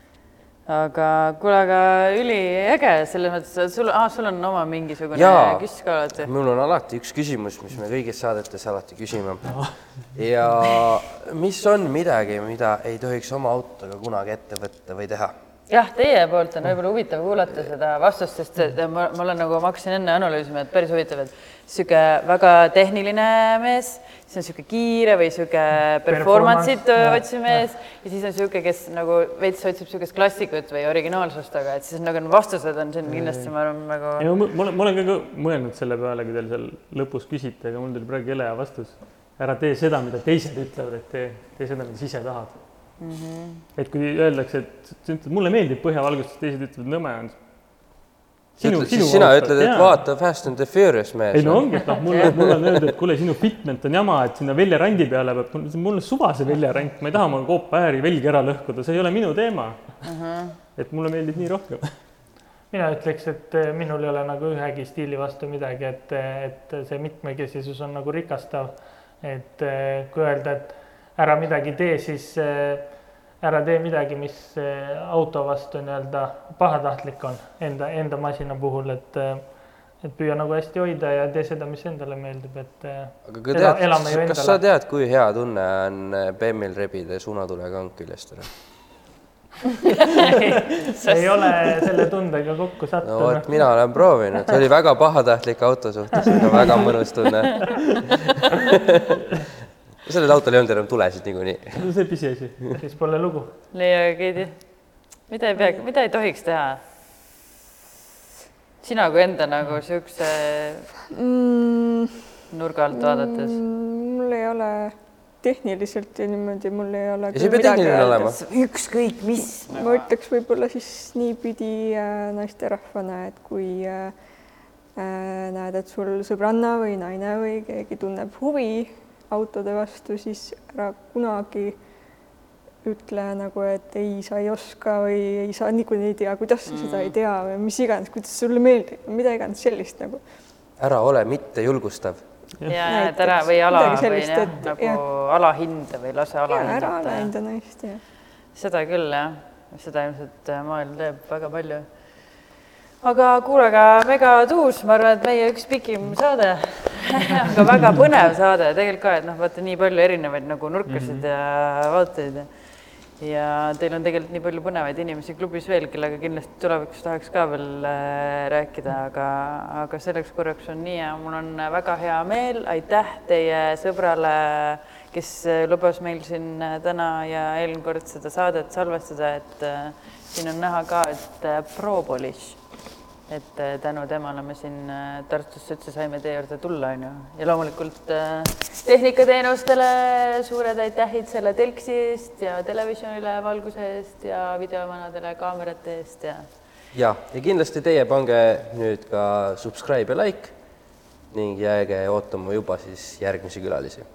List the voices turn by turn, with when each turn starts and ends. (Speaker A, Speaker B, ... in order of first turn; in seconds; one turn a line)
Speaker A: 0.7-6.3
Speaker B: 5.1-15.3
Speaker C: 9.4-10.1
Speaker A: 15.7-34.3
Speaker D: 26.1-27.2
Speaker C: 27.0-27.6
Speaker C: 33.1-42.6
Speaker A: 43.0-43.6
Speaker C: 43.8-47.4
Speaker C: 48.6-50.0
Speaker B: 48.6-52.9
Speaker C: 51.3-60.1
Speaker A: 60.0-60.5
Speaker C: 60.7-62.0
Speaker D: 62.7-84.6
Speaker B: 83.2-88.6
Speaker D: 90.3-93.5
Speaker A: 91.0-91.6
Speaker B: 93.0-99.0
Speaker B: 100.0-101.9
Speaker C: 101.7-102.7
Speaker D: 102.8-103.5
Speaker A: 103.7-106.8
Speaker A: 108.8-110.9
Speaker E: 111.1-112.1
Speaker A: 112.5-113.6
Speaker E: 112.9-118.3
Speaker B: 117.3-118.4
Speaker A: 117.5-120.1
Speaker E: 119.4-124.1
Speaker E: 125.0-131.8
Speaker E: 132.8-140.2
Speaker A: 136.7-137.2
Speaker B: 140.8-142.2
Speaker A: 142.7-147.3
Speaker E: 142.8-145.0
Speaker E: 146.5-148.0
Speaker A: 148.5-151.9
Speaker A: 153.0-182.8
Speaker A: 183.3-196.4
Speaker B: 196.9-200.5
Speaker B: 201.3-204.1